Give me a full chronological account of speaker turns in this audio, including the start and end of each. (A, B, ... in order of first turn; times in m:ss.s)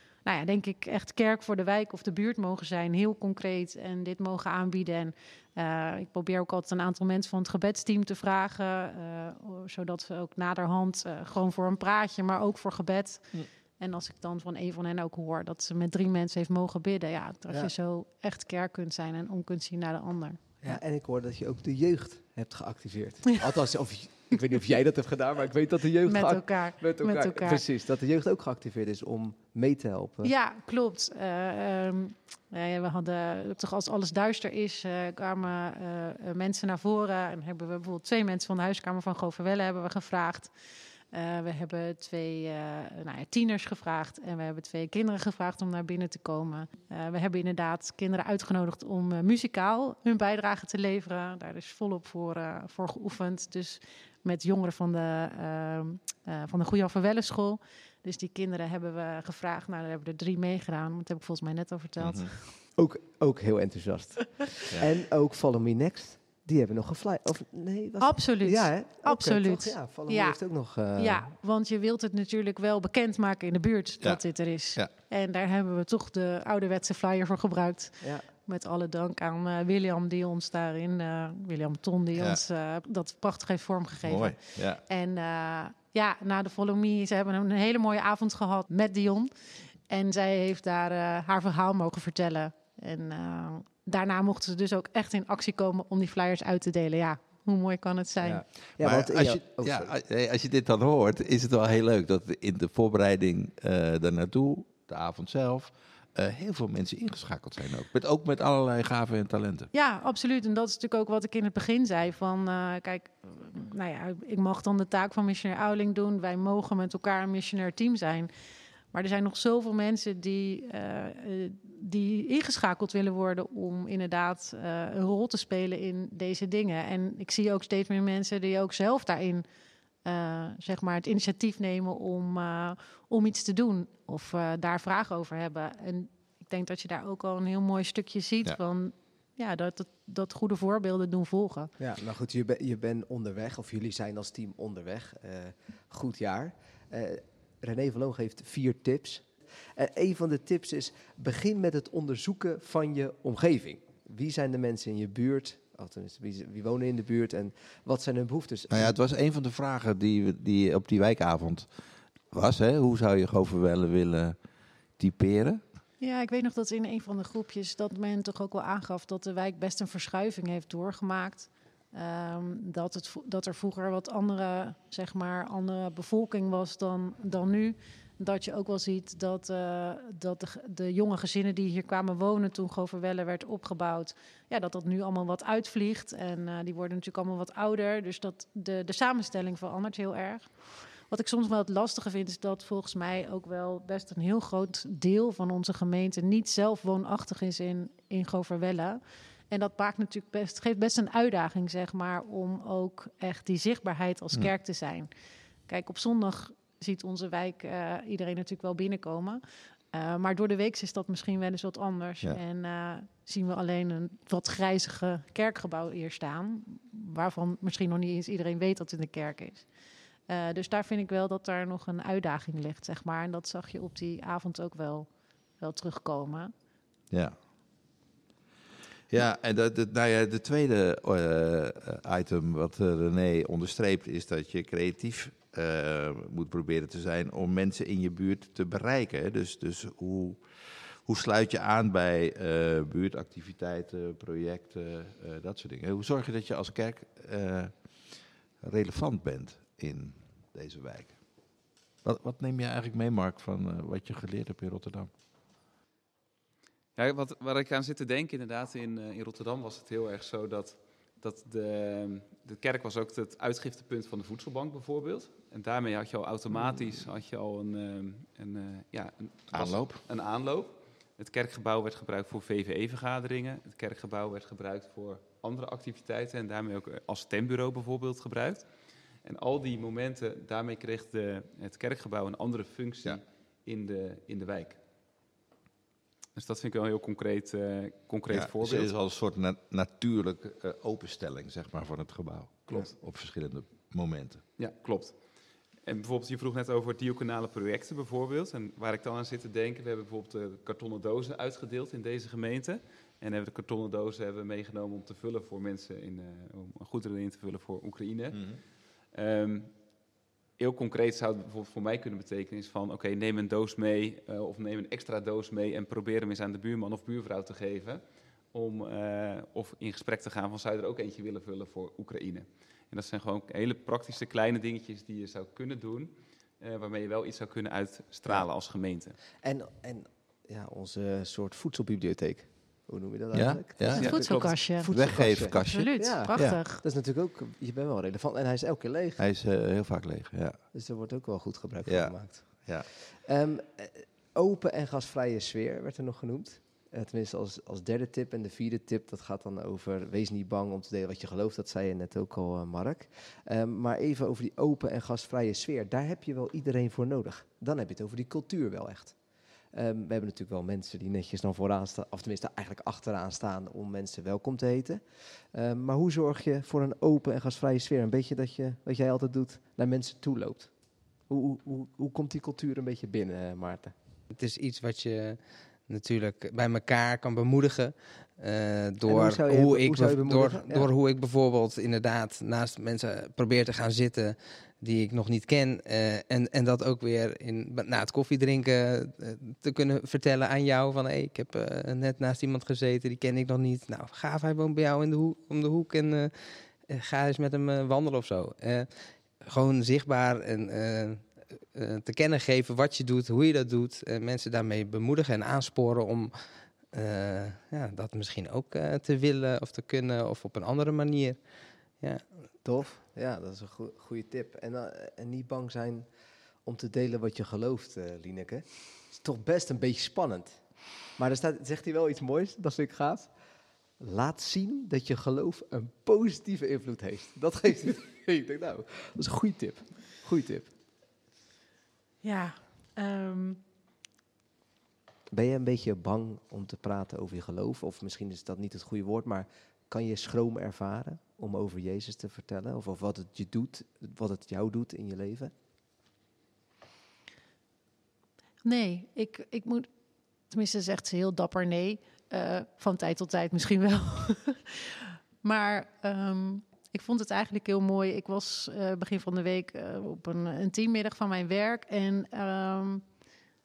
0:00.2-0:20.8 A
0:20.6-0:30.3 B
0:26.1-0:27.6 A
0:30.2-0:40.5 A
0:41.1-1:02.5 A
1:02.0-1:02.3 C
1:02.8-1:11.3 B
1:08.0-1:38.4 A
1:14.0-1:14.9 C
1:18.0-1:18.3 B
1:24.0-1:24.8 C
1:38.2-1:39.9 B
1:38.8-1:49.7 C
1:49.7-1:58.3 A
1:58.9-2:09.4 A
2:10.0-2:21.7 A
2:21.8-2:39.0 B
2:38.7-2:41.8 C
2:42.3-2:45.6 C
2:46.0-3:25.1 A
3:25.7-3:39.7 A
3:40.3-3:46.5 A
3:47.1-3:47.4 C
3:49.1-4:11.2 C
4:12.0-4:15.1 C
4:17.0-4:38.7 D
4:29.5-4:30.0 C
4:39.2-4:44.8 D
4:46.4-4:48.9 D
4:48.3-4:54.4 C
4:54.6-4:55.2 D
4:55.8-5:08.6 D
5:08.3-5:08.6 C
5:09.1-5:09.7 D
5:10.6-5:18.0 D
5:18.5-5:29.2 D
5:29.4-5:39.2 B
5:33.3-5:36.6 C
5:34.0-5:34.9 A
5:35.5-5:36.8 A
5:39.2-5:40.6 C
5:40.7-5:59.2 B
5:41.8-5:42.9 C
5:59.7-6:13.9 B
6:14.3-6:52.5 E
6:19.1-6:20.9 B
6:52.6-6:56.1 B
6:56.6-7:03.3 B
7:04.0-7:10.7 B
7:12.2-7:13.6 A
7:15.3-7:25.5 B
7:28.6-7:29.9 A
7:30.5-7:43.0 A